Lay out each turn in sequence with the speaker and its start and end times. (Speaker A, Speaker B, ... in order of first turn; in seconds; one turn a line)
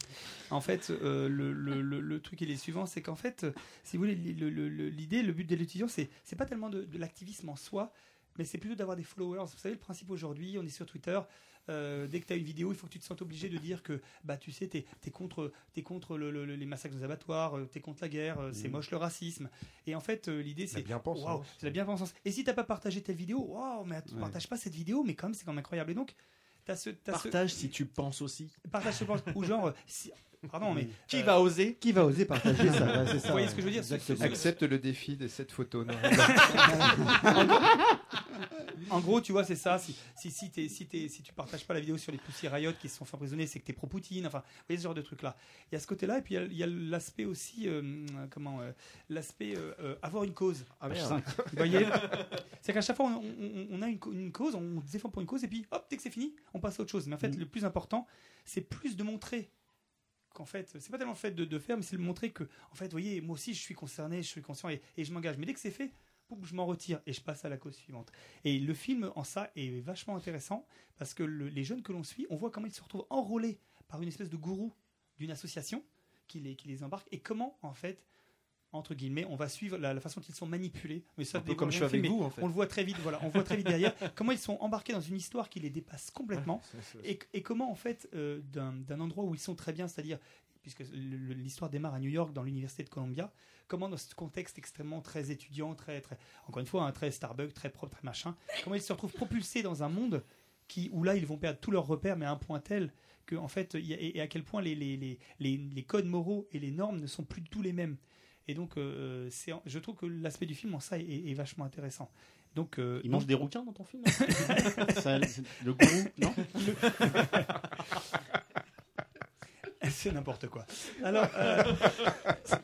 Speaker A: 0.5-26.1
Speaker B: 20.7-21.7
Speaker C: 24.1-24.4
Speaker A: 26.7-27.4
Speaker D: 27.1-28.6
Speaker A: 28.7-31.4
Speaker D: 31.1-31.8
Speaker C: 31.8-34.4
Speaker D: 32.5-33.2
Speaker A: 33.1-34.6
Speaker B: 34.2-36.8
Speaker A: 36.1-37.8
Speaker C: 36.8-37.3
Speaker A: 38.9-50.7
Speaker E: 50.9-51.3
Speaker B: 50.9-51.5
Speaker A: 51.5-59.5
Speaker A: 60.3-78.0
Speaker A: 78.7-113.3
Speaker D: 81.3-82.5
Speaker D: 86.3-87.1
Speaker E: 113.0-117.0
Speaker A: 114.2-115.1
Speaker A: 115.9-117.5
Speaker A: 119.8-122.4
Speaker D: 121.6-122.0